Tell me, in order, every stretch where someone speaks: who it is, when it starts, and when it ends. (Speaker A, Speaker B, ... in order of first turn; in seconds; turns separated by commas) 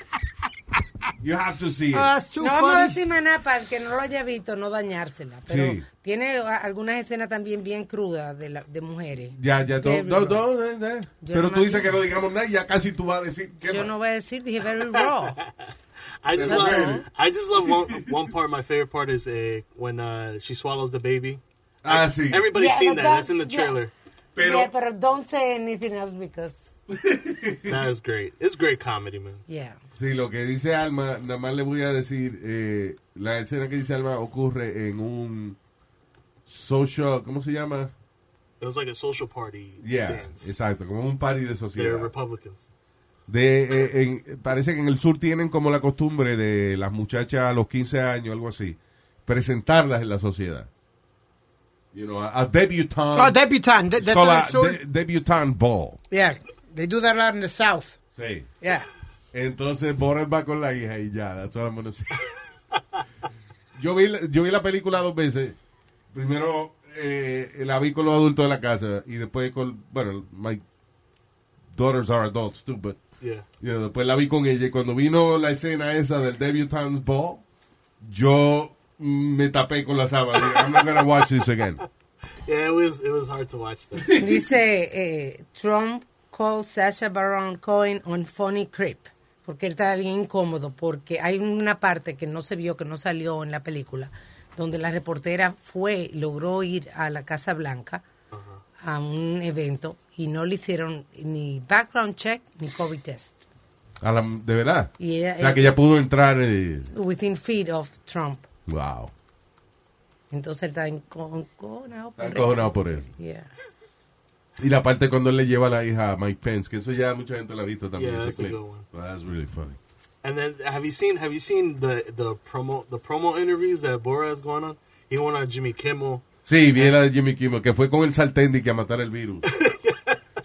Speaker A: 1.2-2.1, Speaker B: 1.9-3.0, Speaker C: 2.4-10.4, Speaker A: 5.5-5.8, Speaker A: 9.4-13.9, Speaker C: 11.2-12.0, Speaker C: 13.7-15.4, Speaker D: 15.0-15.5, Speaker D: 16.2-23.9, Speaker A: 16.3-17.1, Speaker C: 16.4-17.1, Speaker A: 21.8-22.5, Speaker C: 22.5-23.8, Speaker A: 24.4-24.7, Speaker C: 24.4-26.7, Speaker A: 26.9-27.8, Speaker D: 27.6-29.4, Speaker C: 29.5-29.8, Speaker A: 29.9-35.6, Speaker A: 36.5-37.9, Speaker D: 38.6-40.5, Speaker A: 39.8-42.1, Speaker D: 41.8-42.7, Speaker A: 43.3-50.7, Speaker A: 51.9-53.4, Speaker B: 53.1-54.8, Speaker A: 54.0-56.0, Speaker B: 56.1-58.0, Speaker A: 58.2-58.5, Speaker B: 58.6-58.9, Speaker A: 59.3-62.2, Speaker A: 63.8-65.6, Speaker A: 66.1-70.6, Speaker A: 71.7-73.0, Speaker D: 73.2-73.5, Speaker A: 73.6-77.4, Speaker A: 78.0-81.8, Speaker D: 82.5-84.1, Speaker A: 84.0-84.4, Speaker C: 84.2-98.0, Speaker D: 98.3-98.6, Speaker C: 98.8-103.5, Speaker A: 104.0-106.9, Speaker C: 105.0-105.8, Speaker C: 106.9-108.5, Speaker A: 108.7-109.1, Speaker C: 110.3-113.5, Speaker A: 112.2-113.1, Speaker A: 114.6-119.8, Speaker D: 118.0-118.9, Speaker D: 120.2-127.0, Speaker A: 126.5-129.5, Speaker D: 129.4-130.2